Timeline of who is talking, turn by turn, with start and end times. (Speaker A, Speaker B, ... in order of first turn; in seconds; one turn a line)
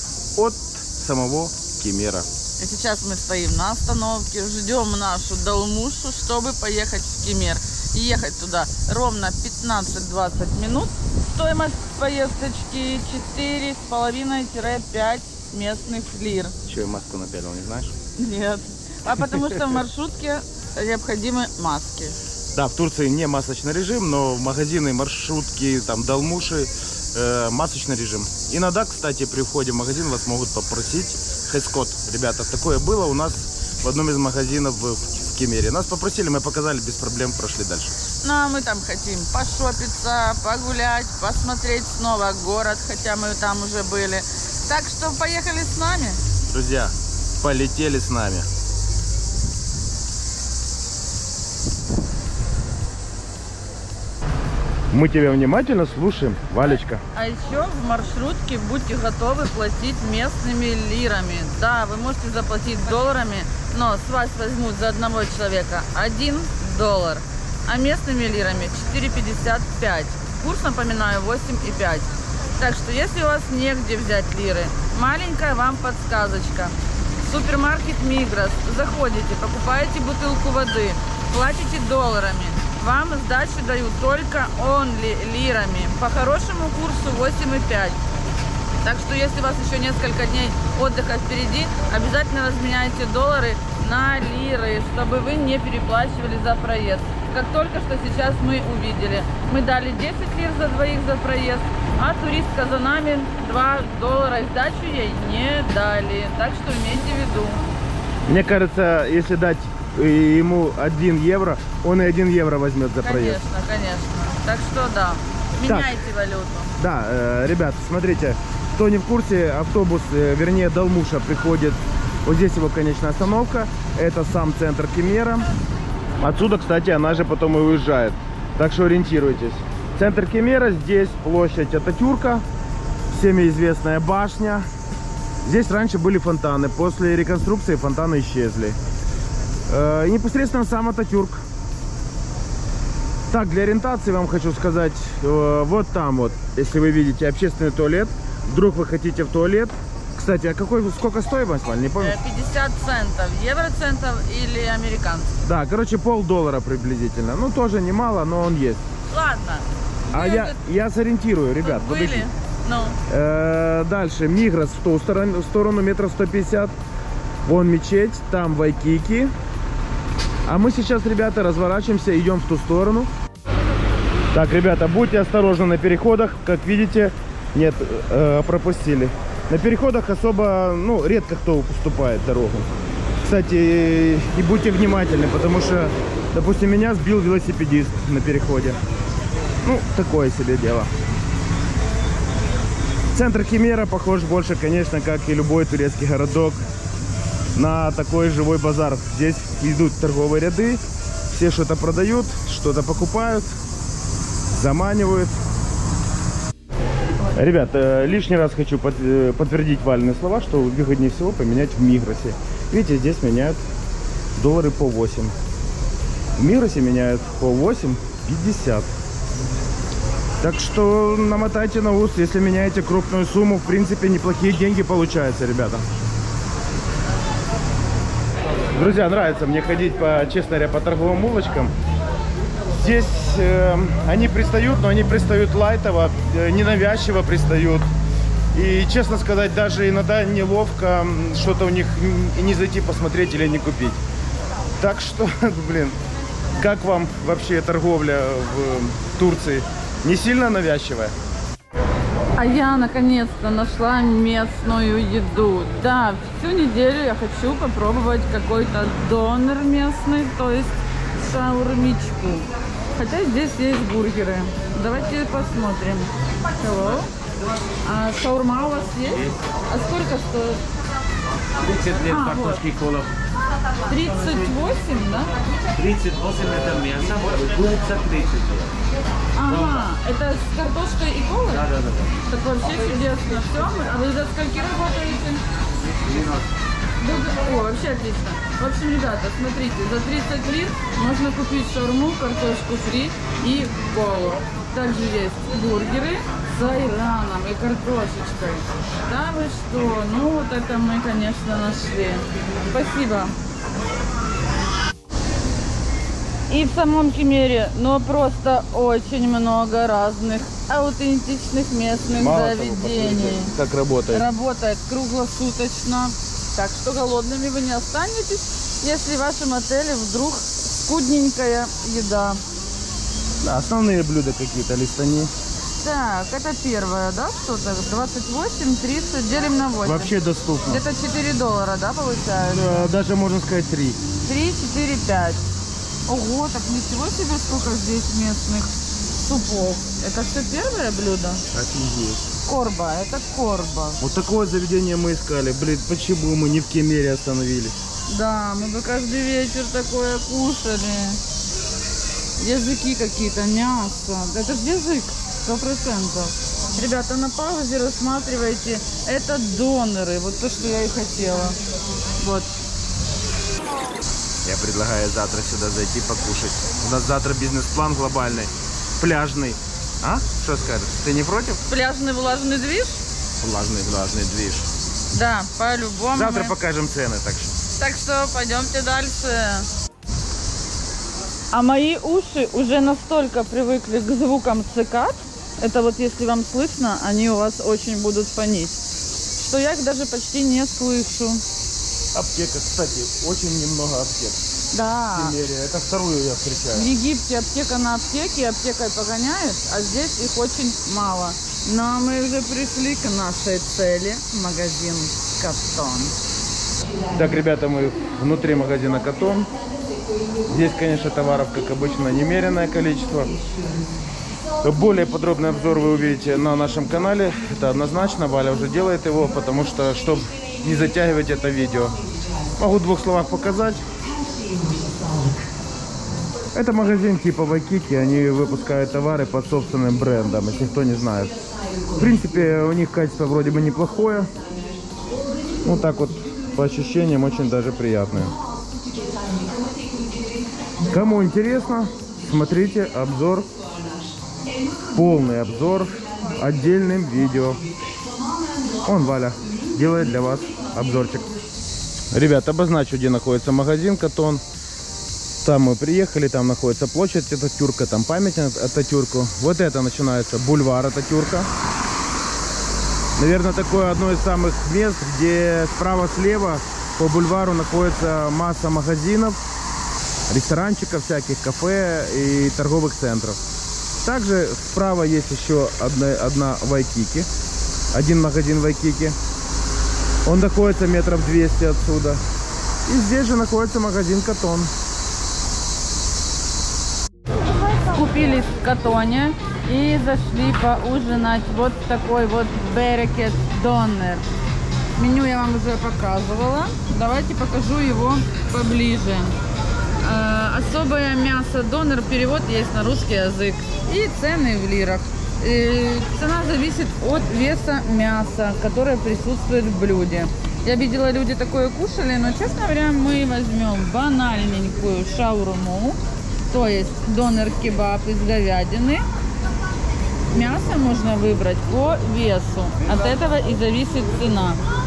Speaker A: 0.3-2.2
Speaker B: 2.6-16.5
Speaker A: 16.6-17.9
Speaker B: 18.1-22.2
Speaker A: 22.5-38.0
Speaker B: 38.2-46.2
Speaker A: 46.5-48.5
Speaker A: 54.9-57.0
Speaker B: 57.1-88.0
Speaker B: 88.8-107.6
Speaker A: 108.3-113.4
Speaker B: 113.0-116.7
Speaker A: 115.6-115.9
Speaker A: 116.8-125.5
Speaker A: 126.2-132.4
Speaker A: 133.1-134.6
Speaker A: 135.4-138.8
Speaker A: 139.7-141.4
Speaker A: 143.3-152.2
Speaker B: 152.0-155.3
Speaker A: 155.4-158.8
Speaker B: 159.1-160.6
Speaker A: 160.1-162.3
Speaker B: 161.6-163.0
Speaker A: 163.1-166.7
Speaker A: 167.4-169.3
Speaker A: 170.4-173.1
Speaker A: 174.3-182.7
Speaker A: 183.2-188.8
Speaker A: 189.6-190.9
Speaker A: 193.1-196.6
Speaker A: 197.5-203.5
Speaker A: 204.5-205.4
Speaker A: 207.3-213.6
Speaker A: 214.3-215.3
Speaker A: 216.4-218.9
Speaker A: 220.4-225.8
Speaker A: 228.7-231.7
Speaker A: 232.7-237.8
Speaker A: 238.5-244.0
Speaker A: 244.8-246.0
Speaker A: 246.6-251.1
Speaker B: 252.3-267.1
Speaker B: 267.8-270.6
Speaker B: 271.9-272.7
Speaker C: 272.6-273.0
Speaker B: 273.9-275.4
Speaker C: 275.8-278.7
Speaker B: 279.3-285.4
Speaker B: 287.0-303.3
Speaker B: 306.5-313.5
Speaker A: 312.1-314.3
Speaker B: 314.1-322.4
Speaker A: 323.4-325.3
Speaker B: 325.8-330.1
Speaker A: 329.8-330.8
Speaker B: 330.6-332.9
Speaker A: 332.5-334.0
Speaker B: 334.2-335.4
Speaker B: 336.1-341.4
Speaker A: 341.5-342.3
Speaker B: 342.4-344.0
Speaker A: 344.0-347.8
Speaker B: 348.1-351.2
Speaker B: 352.4-361.6
Speaker B: 362.2-362.6
Speaker A: 364.4-371.6
Speaker B: 371.6-373.0
Speaker A: 373.4-374.7
Speaker B: 375.1-376.5
Speaker A: 376.1-377.5
Speaker B: 377.7-379.7
Speaker B: 381.5-388.8
Speaker B: 389.4-391.4
Speaker A: 392.1-394.4
Speaker B: 394.7-395.3
Speaker A: 395.1-396.9
Speaker B: 396.7-406.1
Speaker A: 407.1-409.5
Speaker A: 410.4-413.3
Speaker A: 414.6-422.0
Speaker A: 422.6-423.8
Speaker A: 426.5-431.4
Speaker A: 432.0-434.3
Speaker A: 435.6-438.3
Speaker A: 440.8-443.4
Speaker A: 444.9-447.6
Speaker A: 448.8-451.3
Speaker A: 452.1-454.4
Speaker A: 455.4-461.5
Speaker A: 463.2-469.4
Speaker A: 470.3-473.4
Speaker A: 474.0-477.3
Speaker A: 477.9-479.1
Speaker A: 480.2-482.2
Speaker A: 482.9-484.7
Speaker B: 487.4-494.2
Speaker B: 494.9-499.3
Speaker B: 500.0-519.0
Speaker B: 520.3-524.6